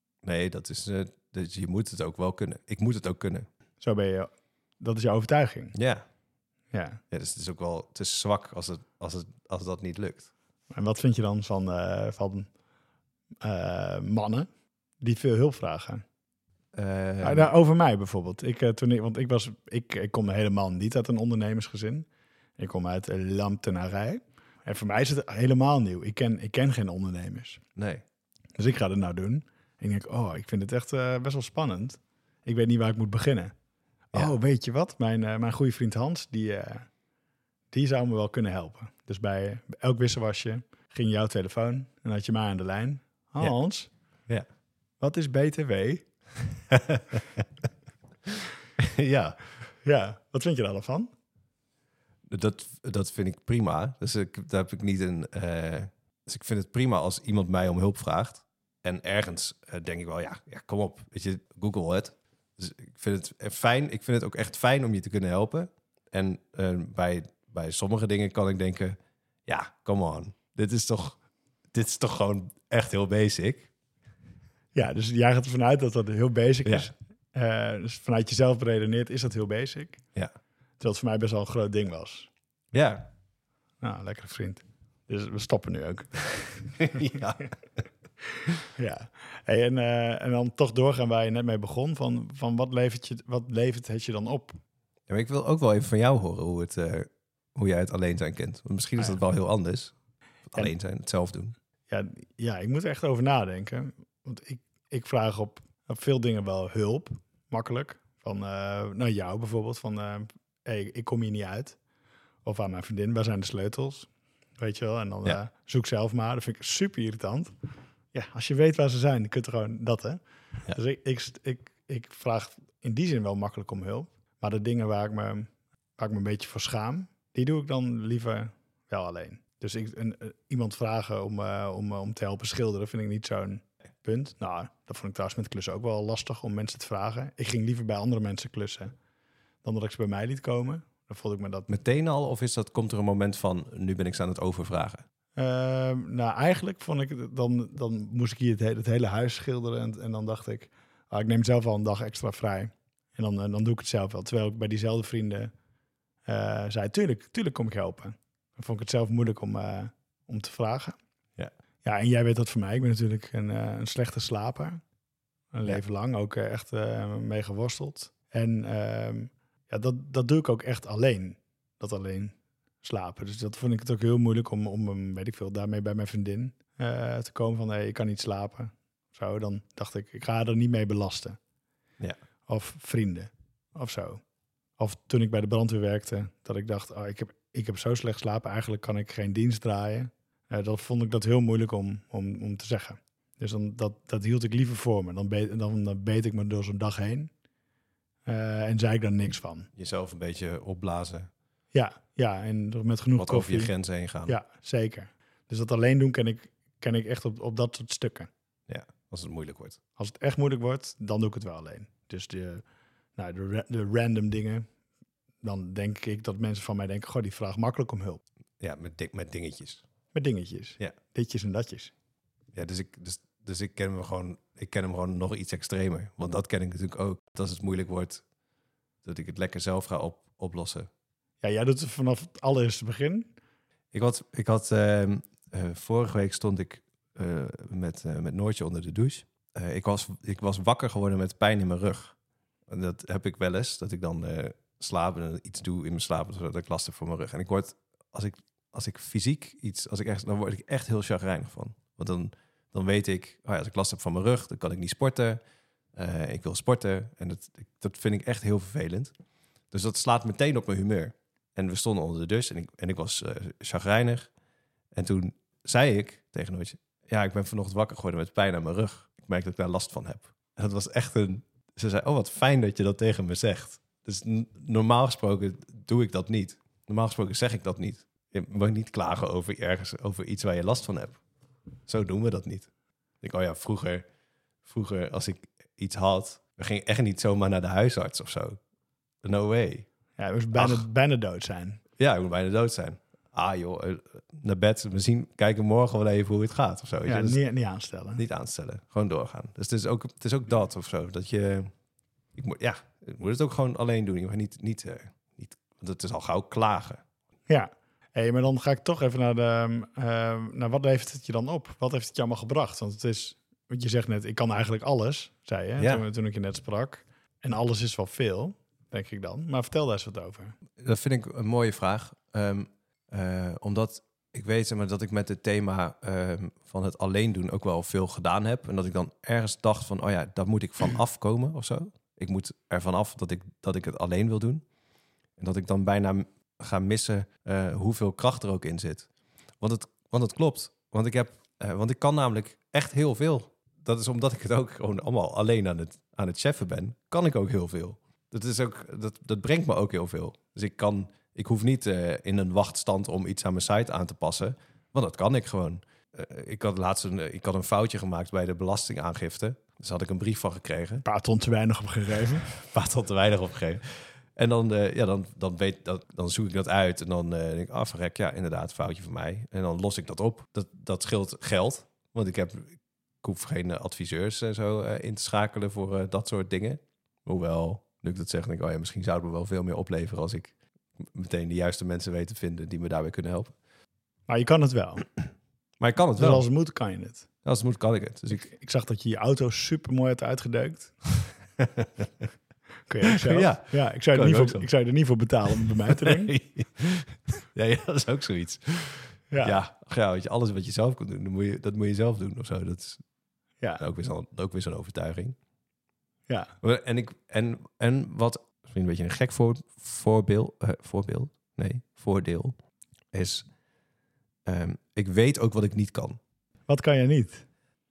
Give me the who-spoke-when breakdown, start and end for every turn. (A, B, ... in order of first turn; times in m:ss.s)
0:00.2-0:03.5 A
0:03.8-0:05.8 B
0:05.8-0:06.0 A
0:06.7-0:07.0 B
0:07.1-0:10.3 A
0:10.7-0:12.5 B
0:13.4-0:14.5 B
0:15.0-0:16.0 B
0:16.7-0:17.5 A
0:17.2-0:27.6 B
0:27.8-0:28.0 A
0:28.6-0:33.5 B
0:34.1-0:36.9 B
0:37.7-0:43.9 B
0:45.0-0:46.1 B
0:46.7-0:47.2 A
0:48.8-0:49.4 A
0:49.8-0:51.1 B
0:52.3-1:11.2 A
1:11.7-1:13.7 A
1:14.8-1:20.0 B
1:20.8-1:22.3 B
1:22.7-1:23.1 A
1:23.8-1:27.5 B
1:26.8-1:27.5 A
1:28.8-1:34.6 B
1:35.1-1:39.9 A
1:40.5-1:41.5 A
1:41.9-1:51.8 B
1:52.4-1:57.5 B
1:58.1-2:19.0 B
2:19.6-2:21.7 B
2:21.7-2:25.0 A
2:25.4-2:35.5 B
2:36.3-2:41.0 B
2:41.8-2:44.8 B
2:45.5-3:01.4 B
3:02.5-3:04.2 B
3:04.8-3:17.3 B
3:18.3-3:19.7 B
3:19.8-3:21.3 A
3:21.7-3:23.7 B
3:23.2-3:24.4 A
3:24.3-3:28.3 B
3:28.7-3:29.8 A
3:30.0-3:32.6 B
3:33.2-3:34.7 B
3:35.4-3:38.2 B
3:38.6-3:39.8 A
3:40.1-3:41.9 B
3:42.5-3:48.2 A
3:49.0-3:50.9 A
3:51.4-3:53.3 B
3:53.9-4:02.2 A
4:02.7-4:15.4 A
4:16.0-4:19.1 A
4:19.7-4:24.3 A
4:24.9-4:41.2 A
4:41.9-4:42.7 A
4:43.2-4:44.0 A
4:44.6-4:48.6 A
4:49.2-4:49.9 A
4:50.2-4:51.8 B
4:50.5-4:50.8 A
4:52.0-4:57.4 A
4:57.1-4:58.2 B
4:58.2-5:01.7 A
5:02.4-5:07.0 A
5:07.5-5:20.6 B
5:20.8-5:34.6 A
5:35.4-5:39.1 A
5:39.6-6:01.0 A
6:01.0-6:02.5 B
6:02.5-6:23.5 A
6:24.3-6:25.1 B
6:25.8-6:26.4 A
6:26.2-6:27.3 B
6:27.4-6:28.5 A
6:28.3-6:31.0 B
6:31.6-6:32.1 A
6:32.9-6:36.3 B
6:33.2-6:34.7 A
6:35.9-6:43.0 A
6:39.3-6:39.6 B
6:43.8-6:45.4 A
6:46.6-6:52.6 A
6:53.1-6:53.5 A
6:54.4-6:56.2 A
6:56.7-6:57.4 B